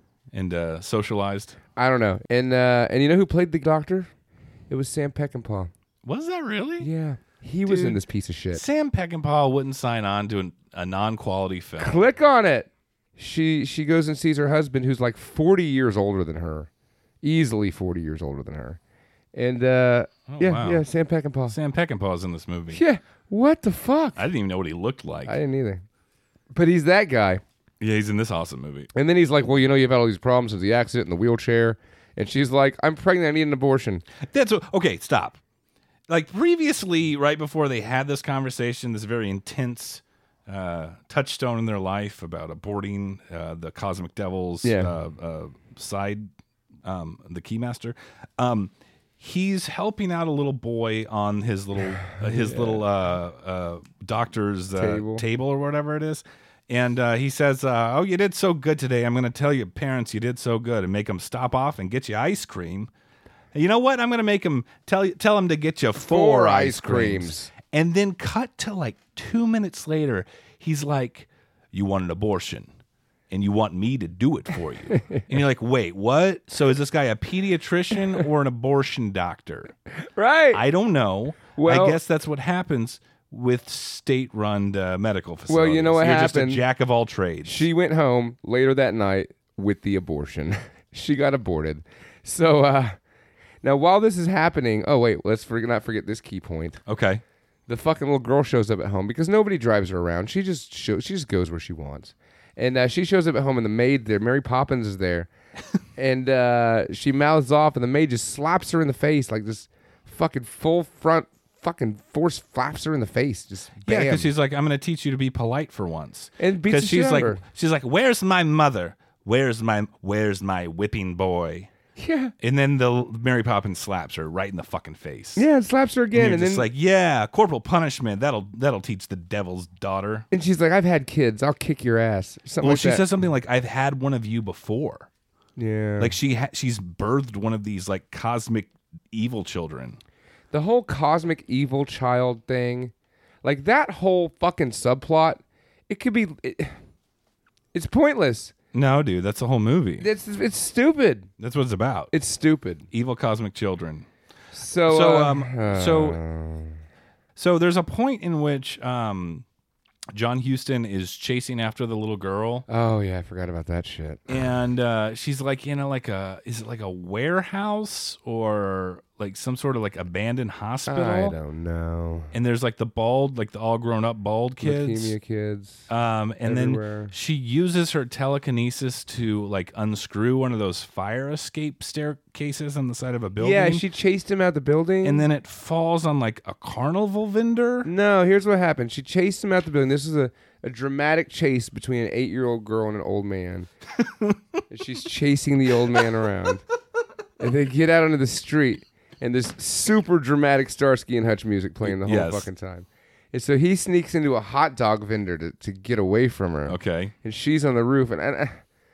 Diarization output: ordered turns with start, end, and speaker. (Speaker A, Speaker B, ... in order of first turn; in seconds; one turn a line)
Speaker A: 0.3-1.6
Speaker B: 1.8-4.1
Speaker B: 4.7-5.7
Speaker A: 6.0-6.9
Speaker B: 6.8-8.6
Speaker A: 7.7-8.0
Speaker A: 8.5-12.0
Speaker B: 11.8-16.7
Speaker B: 17.2-18.8
Speaker B: 19.3-21.6
Speaker A: 20.3-20.8
Speaker A: 21.5-22.8
Speaker B: 22.7-24.2
Speaker A: 24.1-25.4
Speaker B: 25.2-25.8
Speaker B: 26.5-27.4
Speaker A: 27.8-28.9
Speaker B: 28.9-34.0
Speaker A: 34.2-35.4
Speaker A: 36.1-46.3
Speaker B: 44.6-44.9
Speaker A: 46.8-62.9
Speaker B: 52.1-52.8
Speaker B: 54.8-55.2
Speaker A: 63.5-72.7
Speaker B: 66.0-67.5
Speaker A: 73.3-79.7
Speaker B: 74.9-75.2
Speaker B: 80.1-80.6
Speaker A: 80.5-87.7
Speaker B: 81.5-82.0
Speaker B: 85.5-86.6
Speaker B: 87.4-93.0
Speaker B: 93.6-96.8
Speaker A: 96.8-97.2
Speaker B: 97.7-105.3
Speaker B: 106.0-114.3
Speaker A: 113.8-121.7
Speaker B: 116.4-117.4
Speaker B: 122.0-122.3
Speaker A: 122.4-125.4
Speaker B: 125.3-126.7
Speaker A: 126.1-130.3
Speaker B: 130.3-133.0
Speaker A: 132.6-135.1
Speaker B: 135.6-136.1
Speaker A: 136.0-140.0
Speaker B: 140.5-142.9
Speaker B: 143.4-146.8
Speaker B: 147.7-148.5
Speaker A: 148.7-150.1
Speaker B: 150.0-151.3
Speaker A: 151.4-152.1
Speaker B: 152.1-152.9
Speaker A: 152.9-154.1
Speaker B: 154.5-156.8
Speaker A: 154.8-156.2
Speaker A: 157.3-159.4
Speaker A: 160.1-162.6
Speaker B: 162.7-164.3
Speaker A: 164.3-171.3
Speaker B: 170.9-172.3
Speaker A: 172.3-175.2
Speaker B: 174.6-175.9
Speaker A: 175.9-183.8
Speaker B: 176.4-177.1
Speaker B: 183.4-185.2
Speaker A: 185.0-187.9
Speaker B: 187.8-193.7
Speaker A: 194.0-194.4
Speaker B: 194.7-196.6
Speaker B: 197.4-208.6
Speaker A: 201.8-202.5
Speaker A: 206.7-207.1